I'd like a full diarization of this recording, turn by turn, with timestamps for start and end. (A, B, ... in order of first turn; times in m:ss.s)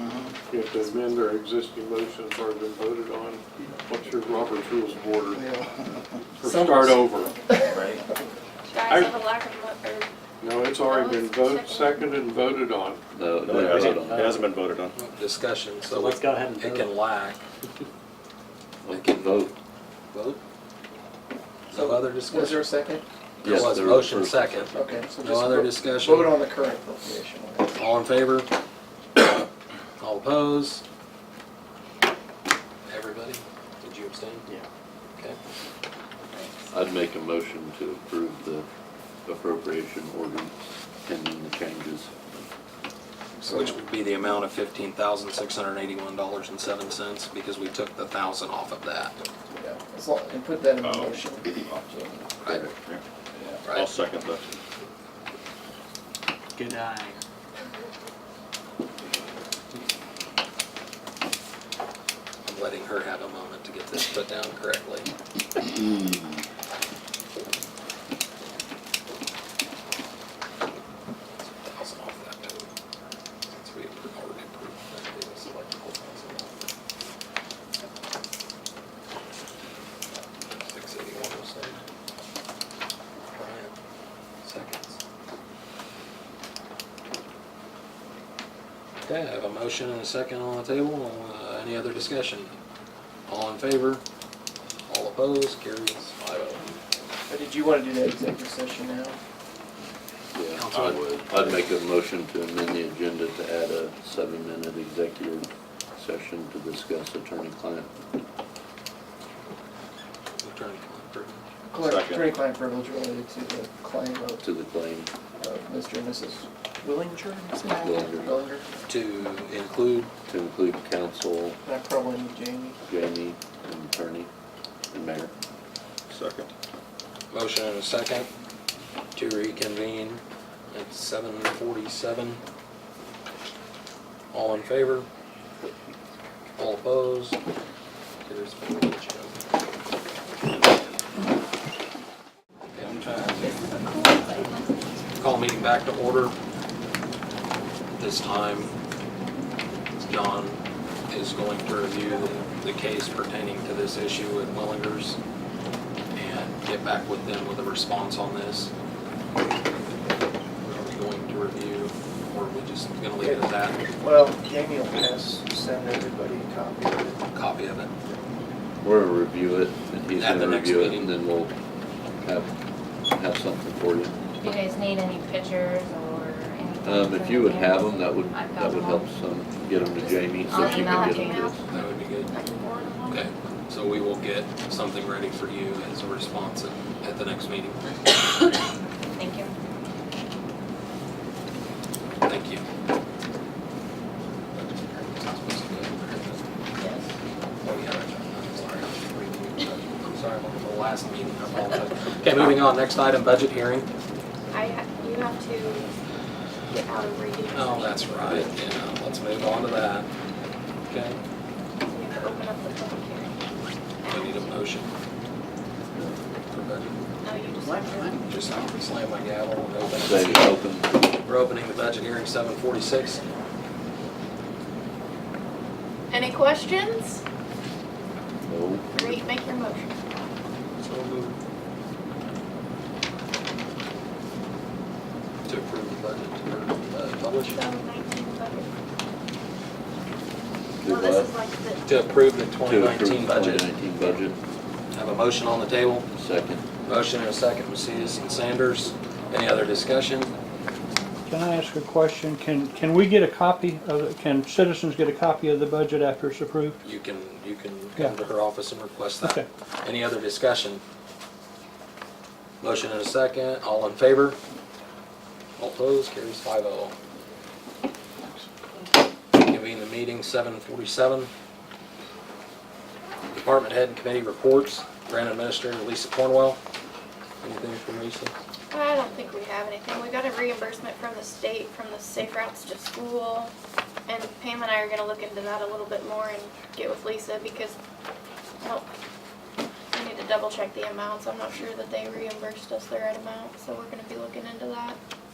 0:00.4-0:05.6 A
0:06.4-0:07.3 A
0:06.4-0:07.8 B
0:07.7-0:08.0 C
0:08.7-0:10.1 D
0:10.4-0:13.0 A
0:10.8-0:12.4 D
0:13.1-0:14.3 E
0:13.4-0:15.0 C
0:13.8-0:14.5 F
0:14.9-0:17.4 G
0:15.9-0:16.9 F
0:18.8-0:19.5 E
0:18.9-0:19.5 G
0:20.1-0:20.4 G
0:21.7-0:22.7 G
0:21.7-0:23.0 B
0:23.4-0:24.7 E
0:23.4-0:26.4 G
0:24.7-0:27.8 B
0:27.8-0:28.5 G
0:30.0-0:30.8 G
0:32.9-0:34.4 G
0:36.7-0:38.7 E
0:39.2-0:42.1 E
0:43.4-0:43.7 B
0:43.5-0:49.2 G
0:49.5-0:52.3 B
0:50.8-0:51.8 C
0:52.4-0:52.7 G
0:52.5-0:53.0 C
0:53.6-0:54.0 G
0:53.7-0:54.6 C
0:56.6-0:57.2 F
1:02.4-1:05.1 G
1:11.4-1:12.7 G
1:13.5-1:16.7 G
1:20.5-1:21.8 G
1:23.3-1:23.8 G
1:24.4-1:25.0 G
1:29.0-1:32.6 G
1:33.3-1:34.0 G
1:34.9-1:36.8 G
1:37.3-1:39.2 B
1:40.3-1:47.9 E
1:40.5-1:41.0 G
1:40.7-1:41.6 C
1:50.4-1:51.4 G
1:51.7-1:54.5 B
1:51.8-1:52.3 C
1:54.4-1:55.1 E
1:55.4-1:58.7 B
1:57.8-1:58.4 E
1:58.9-2:00.1 G
2:00.3-2:01.6 E
2:01.6-2:02.8 B
2:02.8-2:04.3 E
2:04.9-2:05.3 E
2:06.1-2:06.5 C
2:07.3-2:08.3 G
2:09.2-2:12.4 G
2:14.3-2:15.1 G
2:16.6-2:17.4 G
2:18.2-2:19.4 G
2:22.7-2:23.5 G
2:23.4-2:24.9 H
2:25.2-2:26.3 G
2:28.0-2:28.7 G
2:30.0-2:35.2 G
2:36.1-2:38.7 G
2:40.6-2:43.8 G
2:43.2-2:47.2 B
2:47.3-2:47.9 G
2:48.8-2:51.5 E
2:50.2-2:51.1 G
2:52.2-2:52.5 E
2:53.1-2:54.2 E
2:54.4-2:59.1 H
2:56.8-3:01.6 E
3:00.1-3:03.2 D
3:00.4-3:01.4 H
3:01.7-3:02.3 G
3:03.1-3:08.0 G
3:09.2-3:09.5 H
3:12.2-3:12.6 G
3:14.5-3:16.4 G
3:16.8-3:17.1 D
3:17.6-3:23.9 G
3:24.5-3:25.9 D
3:26.7-3:28.4 D
3:27.5-3:30.1 G
3:30.9-3:31.2 G
3:31.8-3:33.4 D
3:34.0-3:34.6 D
3:34.1-3:34.9 G
3:36.5-3:37.0 G
3:37.2-3:38.2 D
3:38.1-3:40.5 G
3:40.0-3:41.0 E
3:41.2-3:43.2 G
3:46.1-3:47.2 D
3:48.4-3:49.2 E
3:48.9-3:50.0 D
3:50.8-3:51.4 G
3:55.5-3:57.6 G
3:57.5-3:58.7 D
4:00.8-4:01.3 E
4:00.8-4:01.9 D
4:01.8-4:03.7 G
4:02.6-4:04.4 E
4:04.9-4:06.1 G
4:06.1-4:06.6 E
4:06.8-4:10.3 G
4:11.3-4:16.8 I
4:16.8-4:20.8 G
4:19.2-4:19.5 I
4:22.6-4:24.4 G
4:25.6-4:27.0 G
4:29.3-4:31.3 G
4:33.3-4:36.6 G
4:37.4-4:38.3 G
4:38.7-4:43.5 D
4:44.1-4:47.8 D
4:48.6-4:48.9 D
4:49.9-4:55.0 D